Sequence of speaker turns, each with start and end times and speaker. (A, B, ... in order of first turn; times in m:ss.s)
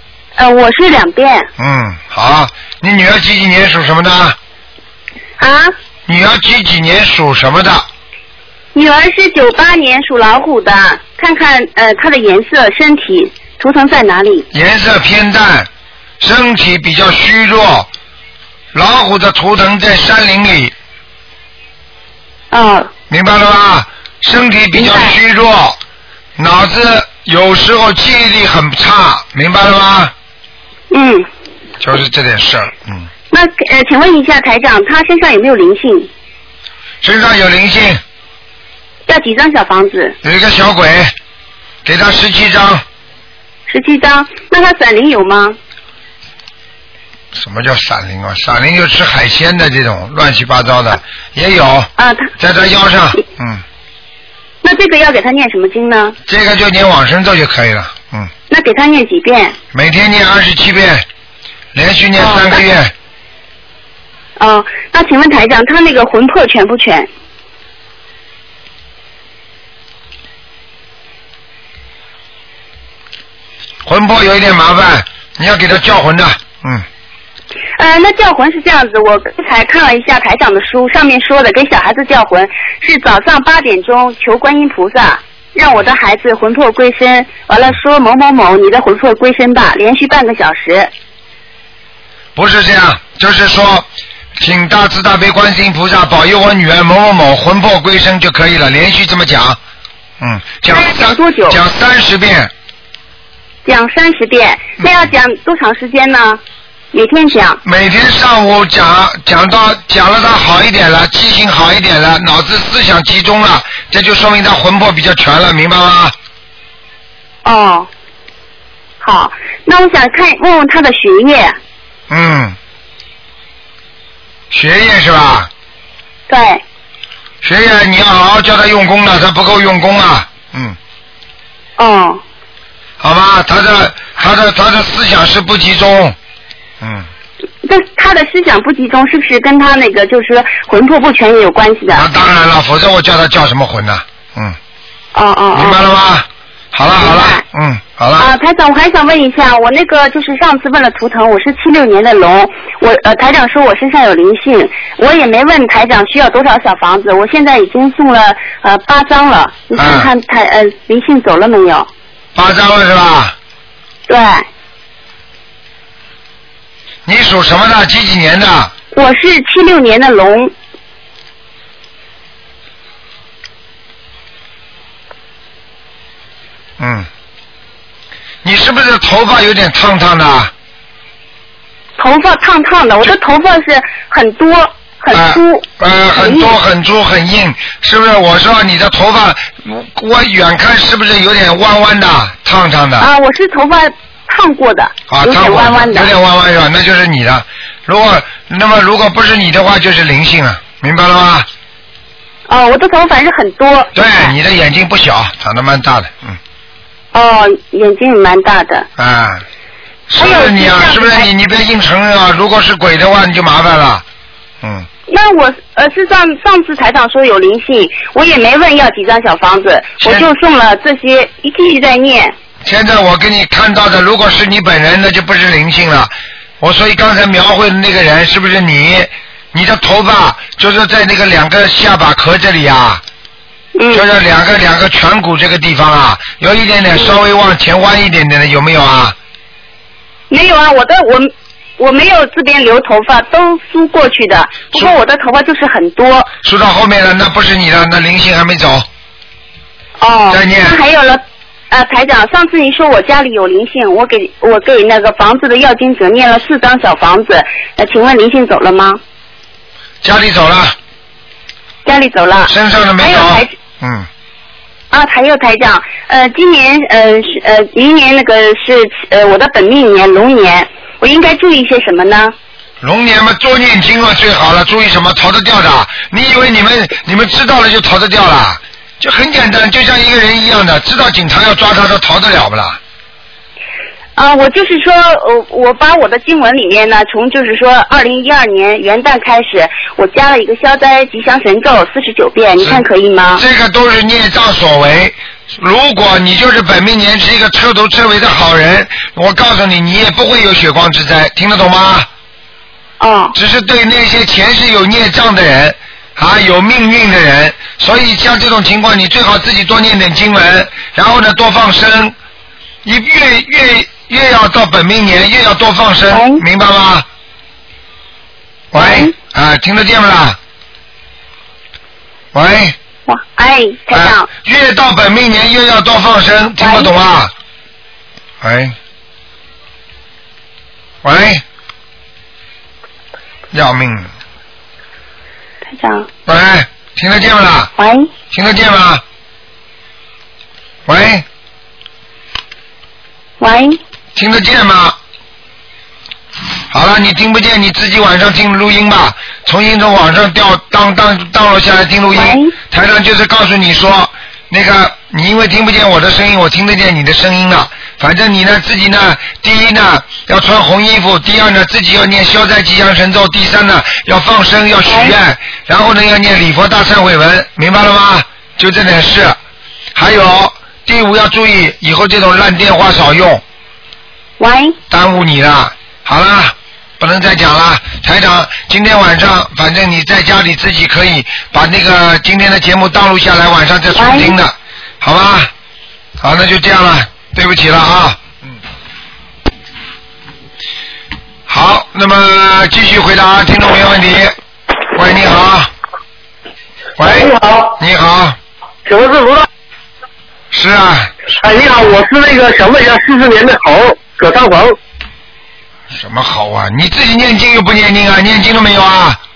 0:00.4-0:01.5 A
0:01.6-0:04.4 B
0:05.4-0:05.8 A
0:06.1-0:07.9 B
0:08.8-0:14.5 A
0:14.5-0:15.7 B
0:16.2-0:17.9 B
0:18.7-0:20.7 B
0:22.5-0:22.9 A
0:23.1-0:25.8 B
0:24.8-0:25.2 A
0:26.4-0:30.1 B
0:30.9-0:31.3 A
0:31.8-0:33.1 B
0:33.3-0:36.1 A
0:37.0-0:38.0 B
0:39.1-0:40.2 A
0:40.2-0:41.1 B
0:41.8-0:42.8 B
0:43.7-0:45.6 A
0:47.3-0:53.6 B
0:52.0-0:52.3 A
0:54.6-0:56.2 A
0:56.3-0:58.3 B
0:58.5-0:59.6 A
0:59.7-1:01.1 B
1:01.7-1:02.9 B
1:02.2-1:02.6 A
1:04.4-1:07.1 A
1:13.8-1:16.8 B
1:17.8-1:30.9 A
1:32.4-1:39.6 B
1:40.2-1:42.5 B
1:40.7-1:41.6 A
1:43.6-1:46.4 A
1:46.9-1:47.6 A
1:47.6-1:56.2 B
1:57.4-1:57.9 A
1:59.0-2:01.6 A
2:02.1-2:02.6 B
2:04.5-2:05.5 B
2:06.3-2:06.6 A
2:07.4-2:10.8 B
2:11.8-2:12.2 A
2:13.0-2:16.2 B
2:16.8-2:17.1 B
2:17.6-2:22.0 A
2:21.9-2:24.6 B
2:25.1-2:25.8 A
2:25.5-2:28.3 B
2:27.0-2:27.4 A
2:28.2-2:41.9 A
2:39.8-2:40.1 B
2:42.4-2:43.4 B
2:44.1-2:44.5 A
2:47.1-2:48.7 B
2:48.9-2:50.5 A
2:56.8-2:57.1 B
2:58.4-3:00.5 B
3:02.0-3:05.7 A
3:05.1-3:13.1 B
3:06.2-3:06.5 A
3:13.0-3:16.1 A
3:15.1-3:21.5 B
3:22.5-3:24.3 A
3:24.0-3:26.4 B
3:27.1-3:28.9 A
3:29.0-3:29.4 B
3:30.1-3:34.0 B
3:30.2-3:31.3 A
3:34.6-3:34.9 B
3:35.1-3:42.4 A
3:40.0-3:40.3 B
3:42.6-3:53.0 B
3:53.8-3:54.0 A
3:53.9-3:59.2 B
4:00.3-4:06.3 A
4:06.4-4:08.9 B
4:10.0-4:19.0 A
4:10.3-4:10.8 B
4:20.0-4:20.8 B
4:21.8-4:23.5 A
4:22.5-4:24.1 B
4:24.9-4:32.3 A
4:32.8-4:42.8 B
4:44.2-4:53.4 A
4:52.6-5:02.1 B
5:03.0-5:03.4 A
5:03.4-5:12.2 B
5:12.8-5:17.1 B
5:16.1-5:16.4 A
5:18.7-5:20.4 B
5:18.8-5:19.1 A
5:22.3-5:22.8 B
5:23.1-5:24.3 A
5:23.9-5:27.3 B
5:26.6-5:26.9 A
5:28.4-5:28.8 B
5:31.0-5:31.4 B
5:33.5-5:34.1 B
5:35.7-5:36.1 A
5:36.3-5:37.7 B
5:37.8-5:38.1 A
5:38.3-5:39.0 B
5:40.9-5:41.2 B
5:43.4-5:43.8 A
5:44.2-5:45.0 B
5:46.7-6:09.4 B
5:52.1-5:52.5 A
6:04.9-6:05.1 A
6:10.0-6:13.4 B
6:14.4-6:14.8 A
6:14.9-6:25.5 B
6:24.0-6:24.4 A
6:26.2-6:28.4 B
6:31.5-6:34.4 B
6:34.9-6:35.7 B
6:37.0-6:38.4 B
6:37.0-6:37.8 C
6:38.9-6:39.5 C
6:40.5-6:41.1 B
6:41.3-6:44.8 C
6:45.9-6:49.2 B